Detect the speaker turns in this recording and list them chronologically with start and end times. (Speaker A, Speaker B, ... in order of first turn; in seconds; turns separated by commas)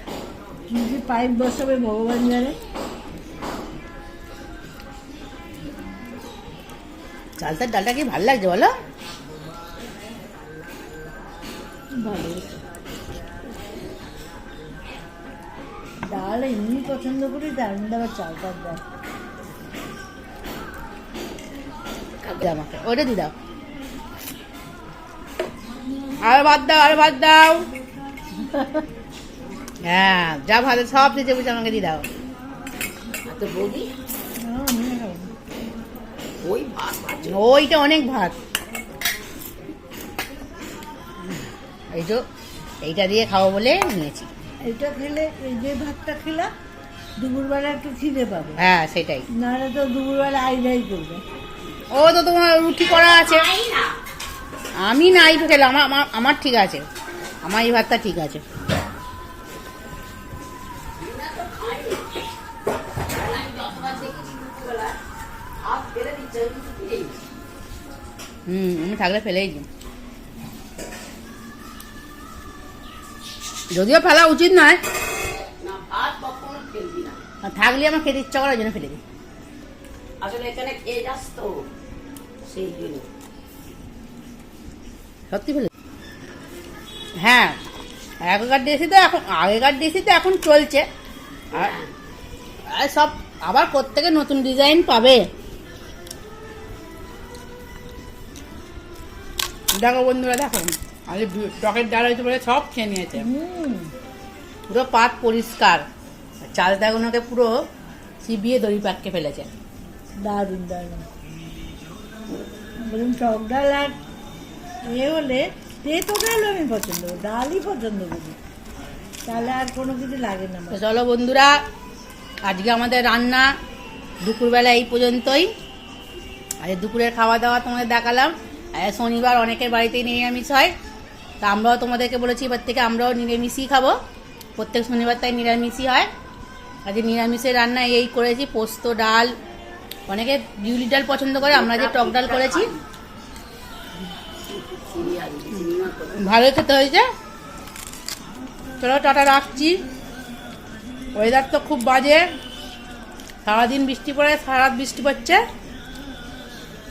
Speaker A: 0.7-2.5, Speaker B: 7.4-8.7, Speaker A: 12.0-12.6, Speaker A: 16.1-18.8, Speaker B: 22.4-23.3, Speaker B: 26.2-27.6, Speaker B: 29.8-32.0, Speaker C: 33.2-33.9, Speaker A: 34.4-35.3, Speaker C: 36.4-37.4, Speaker B: 37.2-38.3, Speaker B: 41.9-42.2, Speaker B: 42.8-44.3, Speaker A: 44.6-46.5, Speaker A: 47.2-48.6, Speaker B: 48.6-49.2, Speaker A: 49.4-51.2, Speaker B: 51.9-53.4, Speaker C: 52.8-54.0, Speaker B: 54.8-56.8, Speaker B: 57.4-58.4, Speaker C: 61.0-62.2, Speaker C: 62.9-65.0, Speaker C: 65.6-67.2, Speaker B: 68.5-69.7, Speaker B: 73.7-74.8, Speaker C: 75.6-77.2, Speaker B: 77.4-79.0, Speaker C: 80.2-81.7, Speaker C: 82.5-83.1, Speaker B: 85.3-85.7, Speaker B: 87.2-87.5, Speaker B: 88.2-90.8, Speaker C: 91.5-91.9, Speaker B: 92.7-95.2, Speaker B: 99.7-103.2, Speaker A: 103.1-103.9, Speaker B: 104.7-105.8, Speaker B: 106.4-107.5, Speaker B: 108.2-109.5, Speaker A: 110.2-111.0, Speaker A: 112.8-114.0, Speaker A: 114.9-118.4, Speaker A: 119.3-120.8, Speaker B: 120.7-121.6, Speaker B: 122.4-123.5, Speaker B: 124.2-125.5, Speaker B: 126.6-130.7, Speaker B: 131.4-133.9, Speaker B: 134.6-136.1, Speaker B: 136.8-139.3, Speaker B: 140.1-142.7, Speaker C: 141.4-142.8, Speaker C: 144.5-146.3, Speaker B: 146.1-147.1, Speaker B: 148.8-149.8, Speaker B: 151.1-152.2, Speaker B: 153.4-155.4